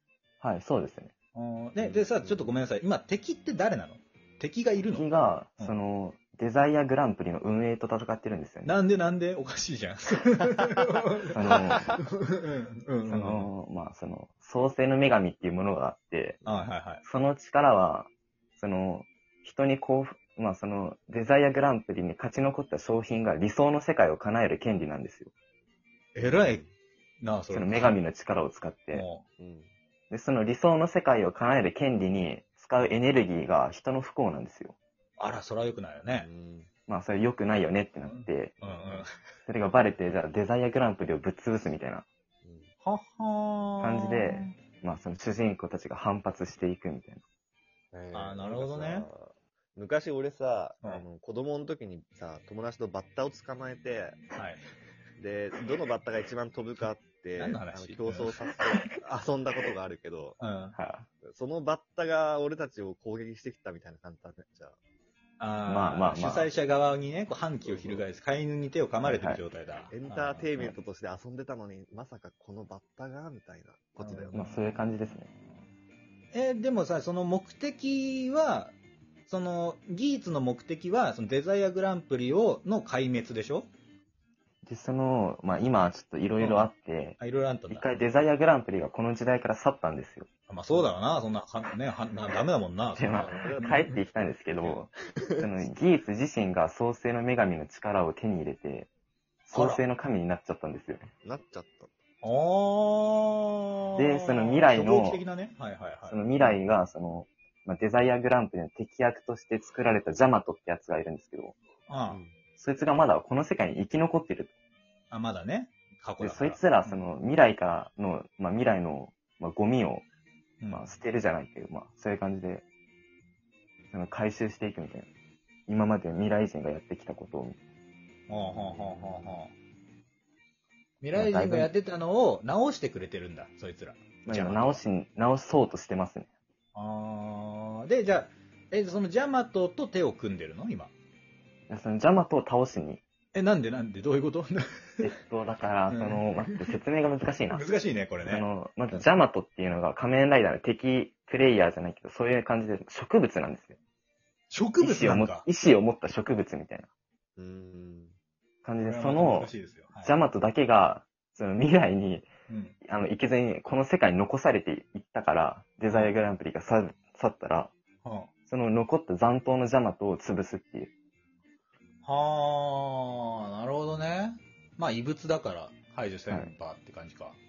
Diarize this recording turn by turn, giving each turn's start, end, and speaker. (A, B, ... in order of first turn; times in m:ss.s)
0:00.4-0:01.1 A
0:01.3-0:05.1 B
0:01.8-0:02.6 C
0:04.9-0:08.7 A
0:08.6-0:13.5 B
0:11.3-0:12.0 A
0:13.1-0:16.4 A
0:16.4-0:16.7 C
0:16.4-0:17.0 B
0:17.0-0:25.3 A
0:26.1-0:26.6 B
0:26.2-0:26.7 C
0:27.2-0:28.0 B
0:27.5-0:29.1 A
0:28.9-0:29.2 B
0:29.4-0:29.7 C
0:30.1-0:34.8 A
0:35.2-0:36.3 B
0:36.1-0:36.7 C
0:36.9-0:38.6 A
0:38.0-0:39.1 B
0:38.6-0:39.1 C
0:39.4-0:42.0 A
0:42.4-0:42.7 C
0:42.8-0:44.6 B
0:43.8-0:47.2 A
0:47.9-0:54.2 C
0:48.1-0:49.1 B
0:54.4-0:54.6 B
0:55.2-1:00.4 C
0:57.4-0:58.3 B
1:00.4-1:00.8 B
1:00.8-1:01.1 A
1:01.2-1:04.8 C
1:05.4-1:10.6 B
1:05.6-1:06.5 A
1:07.6-1:08.1 C
1:09.0-1:09.4 A
1:09.9-1:14.5 C
1:14.0-1:14.6 B
1:14.3-1:15.3 A
1:16.3-1:18.7 B
1:19.3-1:23.7 B
1:24.6-1:27.2 A
1:26.4-1:28.0 B
1:27.7-1:30.3 A
1:30.5-1:33.7 B
1:32.9-1:38.9 A
1:33.0-1:33.8 C
1:35.2-1:35.4 C
1:39.5-1:41.1 A
1:39.5-1:39.8 B
1:41.2-1:41.9 C
1:42.2-1:46.3 B
1:44.0-1:45.2 A
1:46.1-1:51.6 A
1:51.9-1:52.2 B
1:52.1-1:52.4 C
1:52.6-1:54.5 A
1:55.1-1:57.0 B
1:56.2-2:00.0 A
2:00.6-2:00.9 B
2:00.7-2:02.6 A
2:03.9-2:05.1 A
2:05.7-2:07.6 A
2:08.3-2:09.5 B
2:08.3-2:09.4 C
2:11.0-2:14.8 B
2:11.1-2:11.7 A
2:14.2-2:16.3 A
2:16.7-2:20.9 B
2:21.7-2:23.0 A
2:23.3-2:25.1 B
2:25.0-2:27.7 A
2:25.9-2:26.6 B
2:27.5-2:29.0 B
2:28.2-2:33.8 A
2:34.5-2:35.4 B
2:34.8-2:36.9 A
2:37.4-2:38.1 C
2:38.6-2:42.3 A
2:38.8-2:40.2 B
2:42.5-2:42.8 B
2:42.8-2:47.7 A
2:45.8-2:46.2 B
2:48.0-2:48.3 B
2:48.5-2:50.9 A
2:52.0-2:57.4 B